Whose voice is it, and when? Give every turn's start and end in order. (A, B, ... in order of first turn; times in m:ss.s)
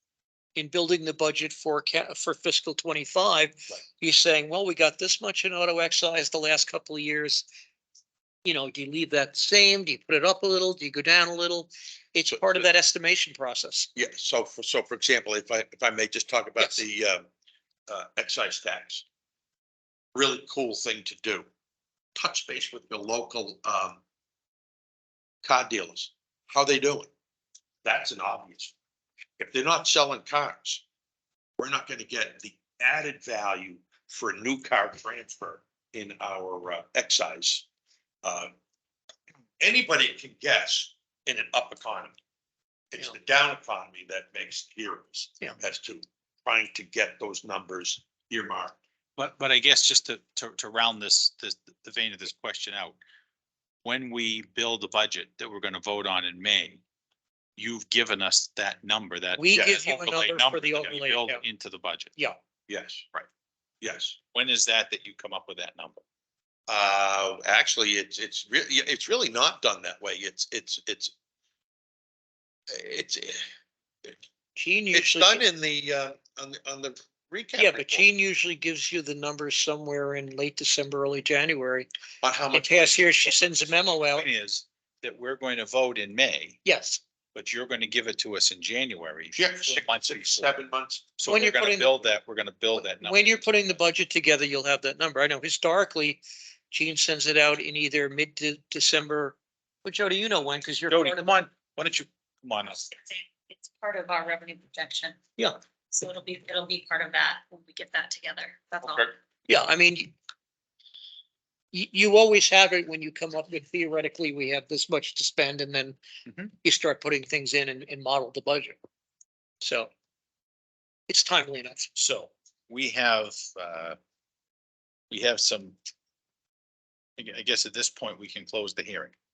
0:00.6-0:07.5 A
0:08.4-0:13.9 A
0:12.3-0:12.7 B
0:14.0-0:17.3 B
0:17.9-0:19.0 B
0:20.2-0:21.5 B
0:22.2-0:24.0 B
0:25.4-0:27.1 B
0:27.8-0:28.7 B
0:29.4-0:30.8 B
0:31.6-0:37.7 B
0:38.2-0:38.5 B
0:39.6-0:42.2 B
0:42.9-0:48.8 B
0:49.2-0:53.0 C
0:53.8-0:56.8 C
0:57.6-1:02.2 C
0:59.4-1:01.4 A
0:59.5-0:59.8 B
1:02.7-1:03.0 B
1:03.8-1:04.2 B
1:04.3-1:06.0 C
1:06.7-1:11.1 B
1:12.7-1:13.5 B
1:14.6-1:15.5 A
1:14.9-1:18.1 B
1:17.6-1:21.9 A
1:22.2-1:23.7 B
1:22.5-1:24.3 A
1:24.1-1:26.6 C
1:26.6-1:27.0 A
1:27.4-1:30.6 C
1:29.3-1:31.4 B
1:31.2-1:33.3 C
1:31.3-1:31.9 A
1:33.0-1:41.4 A
1:40.9-1:42.9 C
1:43.8-1:45.1 D
1:46.0-1:49.0 D
1:49.5-1:50.1 A
1:51.7-1:56.0 A
1:56.3-1:56.5 C
1:56.6-1:58.8 A
1:59.6-1:59.9 A
2:01.1-2:01.9 A
2:02.0-2:04.0 C
2:05.1-2:05.8 C
2:07.2-2:09.1 C